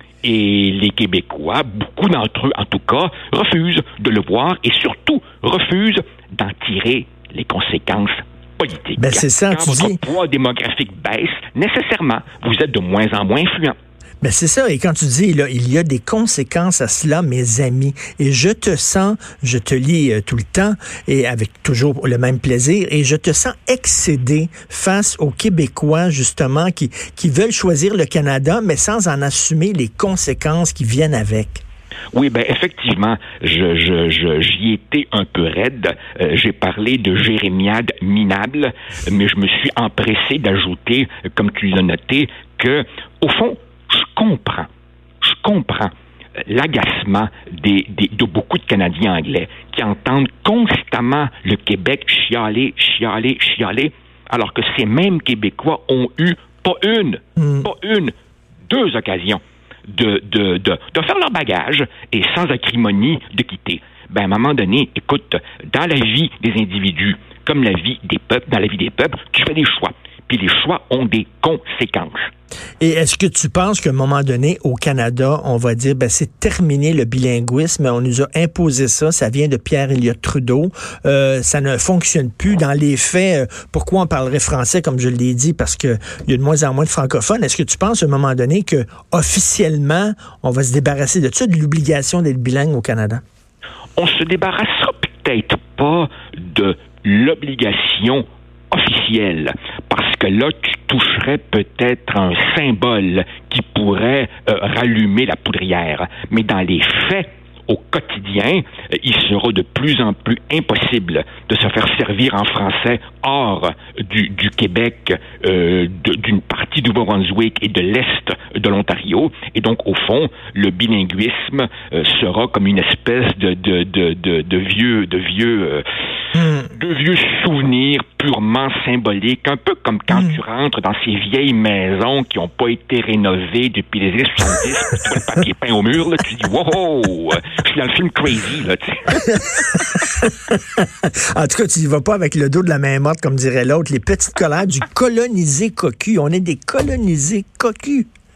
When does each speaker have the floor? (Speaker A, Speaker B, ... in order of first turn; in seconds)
Speaker A: 0.2-13.8, 32.1-44.7, 45.2-45.9, 46.5-58.1, 58.7-72.3, 94.0-125.8, 126.7-139.2
Speaker B: 9.0-10.0, 14.2-31.6, 57.4-57.7, 72.8-93.2, 126.3-126.7, 139.1-148.1